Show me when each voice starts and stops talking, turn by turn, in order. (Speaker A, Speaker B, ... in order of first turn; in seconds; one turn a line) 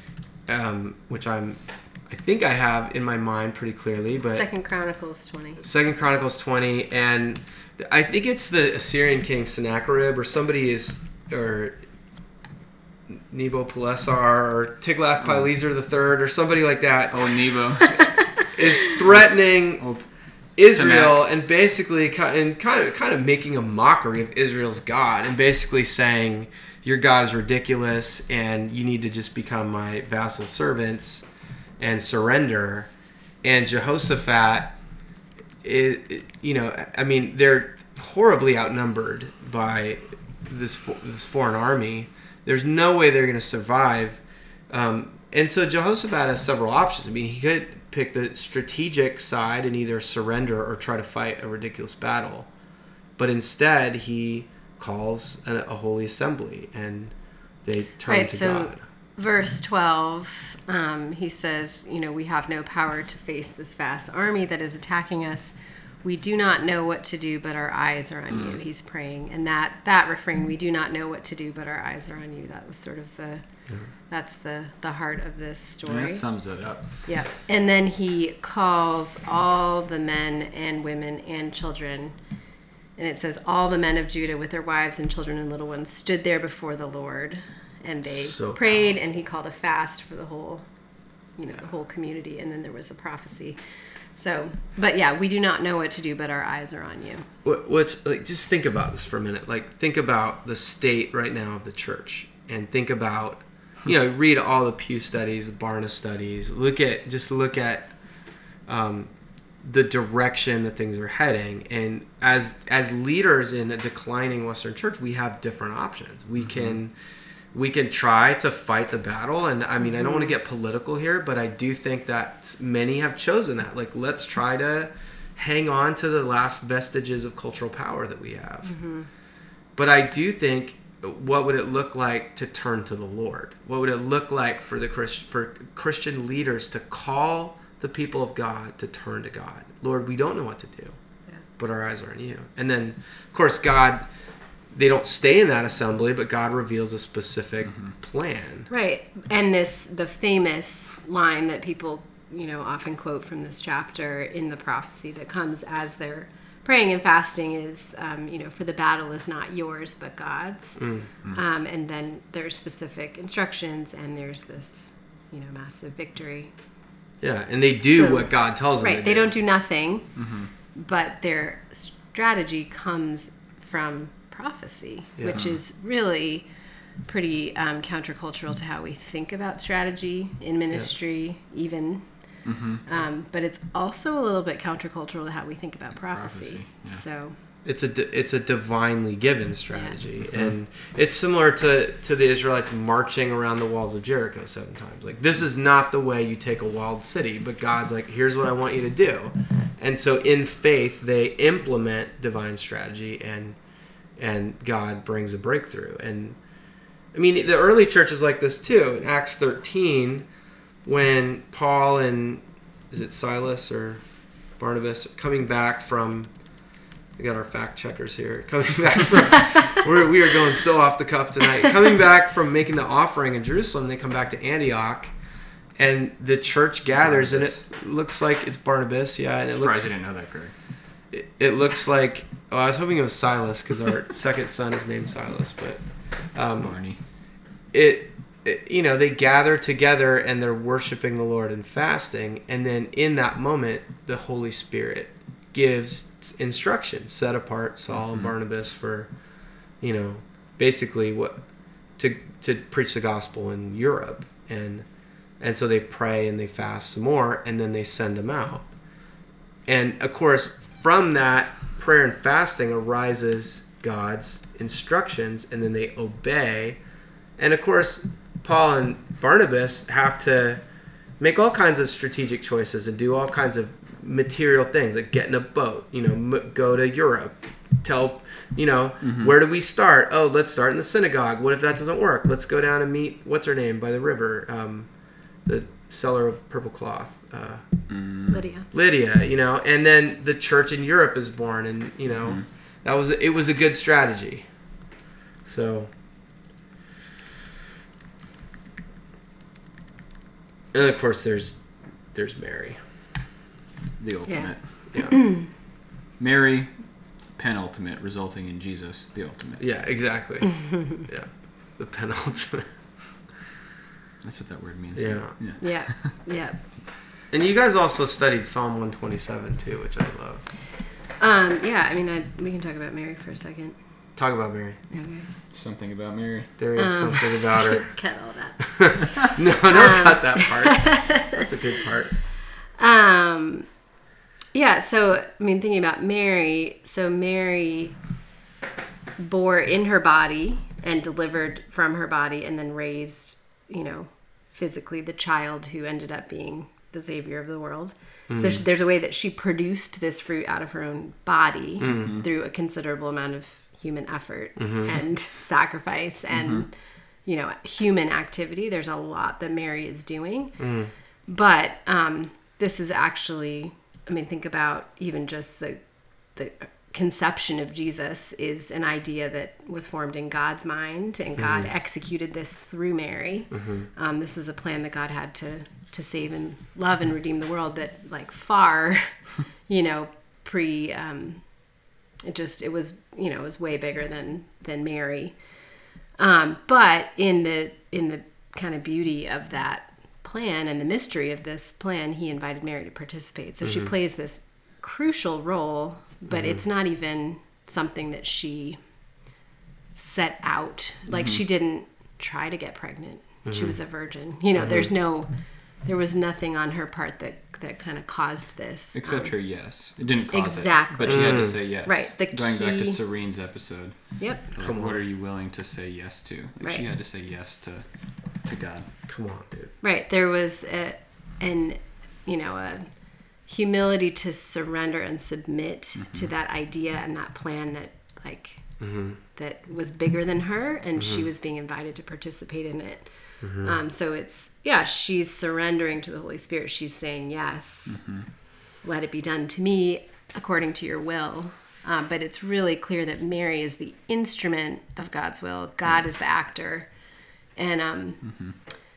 Speaker A: 0.5-4.5
Speaker B: 4.3-5.6
Speaker A: 5.6-11.8
Speaker A: 13.1-17.5
Speaker C: 15.2-15.5
Speaker C: 17.1-18.3
Speaker B: 17.9-18.5
Speaker A: 18.5-19.8
Speaker C: 19.0-20.1
Speaker A: 20.6-31.3
Speaker C: 20.6-21.2
Speaker A: 31.8-32.9
Speaker A: 33.4-34.8
Speaker A: 35.6-52.5
Speaker A: 53.2-57.1
Speaker A: 57.6-58.8
Speaker B: 58.1-73.4
Speaker C: 68.3-68.6
Speaker B: 74.1-76.3
Speaker C: 75.8-77.0
Speaker B: 76.8-82.2
Speaker B: 83.0-90.7
Speaker A: 88.0-88.6
Speaker B: 91.4-93.6
Speaker B: 94.1-97.3
Speaker A: 97.4-107.9
Speaker A: 108.7-116.9
Speaker C: 116.4-116.8
Speaker A: 117.5-128.8
Speaker B: 119.9-120.3
Speaker B: 128.7-129.1
Speaker A: 129.8-141.0
Speaker A: 141.6-144.1
Speaker A: 144.7-148.7
Speaker B: 148.7-166.5
Speaker A: 160.8-161.1
Speaker A: 167.2-169.3
Speaker B: 167.9-170.2
Speaker C: 170.2-170.5
Speaker B: 170.7-176.5
Speaker A: 175.2-175.4
Speaker C: 175.3-175.6
Speaker B: 177.1-187.3
Speaker C: 182.4-182.8
Speaker C: 186.1-187.0
Speaker A: 187.6-203.6
Speaker C: 190.2-190.5
Speaker A: 204.2-206.4
Speaker A: 207.1-210.3
Speaker A: 210.8-214.0
Speaker A: 214.6-216.3
Speaker A: 217.2-225.1
Speaker A: 225.8-229.9
Speaker C: 227.0-227.6
Speaker C: 229.5-230.5
Speaker A: 231.1-235.8
Speaker A: 236.3-236.8
Speaker C: 236.5-237.0
Speaker A: 237.7-249.1
Speaker C: 247.9-248.3
Speaker A: 249.8-251.4
Speaker A: 252.0-254.8
Speaker A: 255.4-258.7
Speaker A: 259.6-266.8
Speaker A: 267.4-270.6
Speaker A: 271.2-284.9
Speaker C: 279.0-279.3
Speaker A: 285.4-288.0
Speaker C: 287.9-288.4
Speaker B: 288.3-288.7
Speaker A: 288.7-294.5
Speaker A: 295.4-295.9
Speaker A: 300.7-302.8
Speaker C: 304.0-305.6
Speaker B: 304.3-305.4
Speaker A: 304.9-305.2
Speaker C: 306.2-309.6
Speaker A: 309.6-312.7
Speaker C: 314.2-316.1
Speaker A: 314.9-315.4
Speaker B: 315.6-316.6
Speaker A: 317.3-320.5
Speaker B: 321.2-323.8
Speaker A: 324.1-324.8
Speaker B: 324.9-325.3
Speaker C: 325.5-326.6
Speaker A: 326.6-328.0
Speaker B: 326.8-331.4
Speaker A: 328.8-332.2
Speaker B: 332.6-333.7
Speaker B: 334.5-338.0
Speaker B: 339.2-360.6
Speaker A: 348.3-348.6
Speaker A: 351.8-352.2
Speaker C: 351.9-352.2
Speaker A: 354.6-354.9
Speaker C: 356.3-356.6
Speaker A: 360.6-360.9
Speaker B: 361.2-385.5
Speaker A: 371.4-371.7
Speaker A: 373.5-373.9
Speaker B: 386.1-398.8
Speaker A: 393.6-393.9
Speaker A: 396.3-396.6
Speaker B: 399.9-409.4
Speaker C: 401.1-401.4
Speaker A: 403.4-403.8
Speaker A: 404.6-404.9
Speaker C: 408.9-418.9
Speaker B: 410.3-413.0
Speaker A: 411.1-411.6
Speaker B: 414.2-414.5
Speaker A: 414.6-415.0
Speaker B: 416.6-416.8
Speaker A: 419.1-419.7
Speaker B: 419.8-428.8
Speaker C: 426.0-426.3
Speaker A: 428.8-429.2
Speaker B: 429.3-446.9
Speaker A: 431.0-431.3
Speaker A: 433.4-433.7
Speaker C: 437.9-438.3
Speaker B: 447.5-448.4
Speaker C: 448.2-448.6